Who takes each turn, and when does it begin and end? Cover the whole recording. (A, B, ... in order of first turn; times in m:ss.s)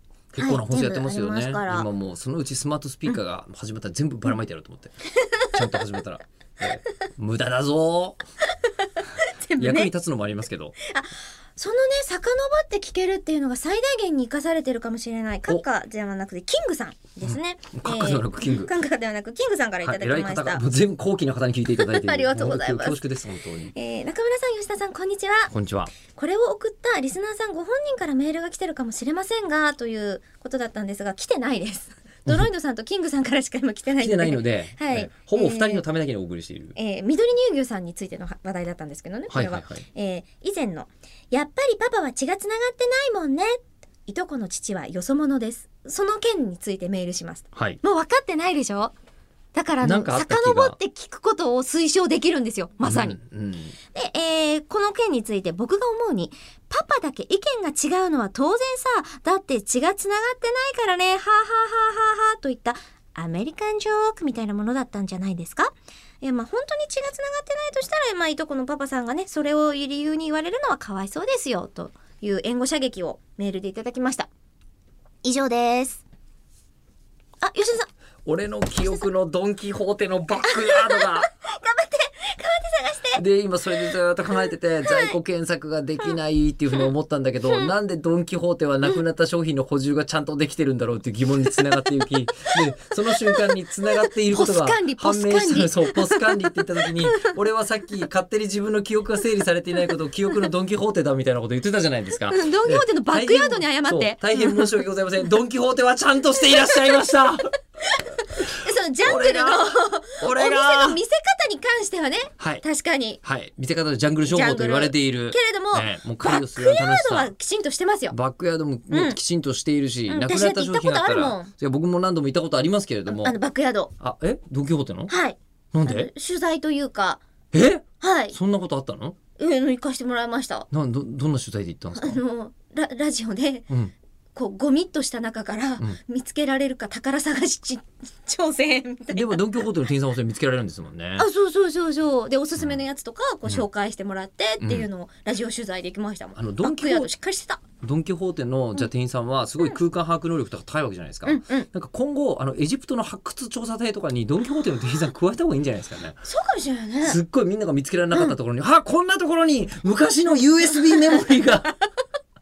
0:00.3-0:04.9 A
0:00.4-0:01.9 B
0:05.2-0:05.6 B
0:05.5-0:08.2 A
0:08.6-0:09.9 B
0:09.6-0:10.8 A
0:10.8-0:20.6 B
0:17.2-0:18.7 A
0:19.8-0:23.7 A
0:21.8-0:23.0 B
0:23.7-0:25.5 B
0:25.5-0:25.9 A
0:26.1-0:35.8 B
0:34.0-0:36.8 A
0:36.8-0:48.9 B
0:39.3-0:39.8 A
0:47.6-0:47.8 A
0:49.5-0:53.2 B
0:49.8-0:50.8 A
0:52.9-0:53.7 A
0:53.9-1:14.3 B
1:15.2-1:16.0 B
1:17.4-1:17.9 B
1:18.2-1:21.3 A
1:20.5-1:23.2 B
1:23.2-1:47.5 A
1:24.9-1:25.2 B
1:33.2-1:37.3 B
1:42.3-1:44.8 B
1:46.5-1:47.0 B
1:47.9-1:53.2 B
1:49.0-1:51.0 A
1:52.4-1:52.6 A
1:53.2-1:57.3 A
1:54.3-1:58.2 B
1:58.1-2:03.4 A
1:58.9-1:59.2 B
2:00.1-2:01.5 B
2:03.1-2:03.9 B
2:04.0-2:05.1 A
2:05.1-2:07.2 B
2:05.7-2:06.1 A
2:07.5-2:09.2 A
2:08.0-2:08.4 B
2:09.4-2:10.7 B
2:10.7-2:12.2 A
2:11.9-2:13.7 B
2:14.4-2:19.4 B
2:19.1-2:21.3 A
2:21.2-2:27.6 B
2:24.6-2:24.9 A
2:26.4-2:27.1 A
2:27.8-2:36.2 A
2:31.3-2:31.7 B
2:36.2-2:37.2 B
2:37.0-2:41.7 A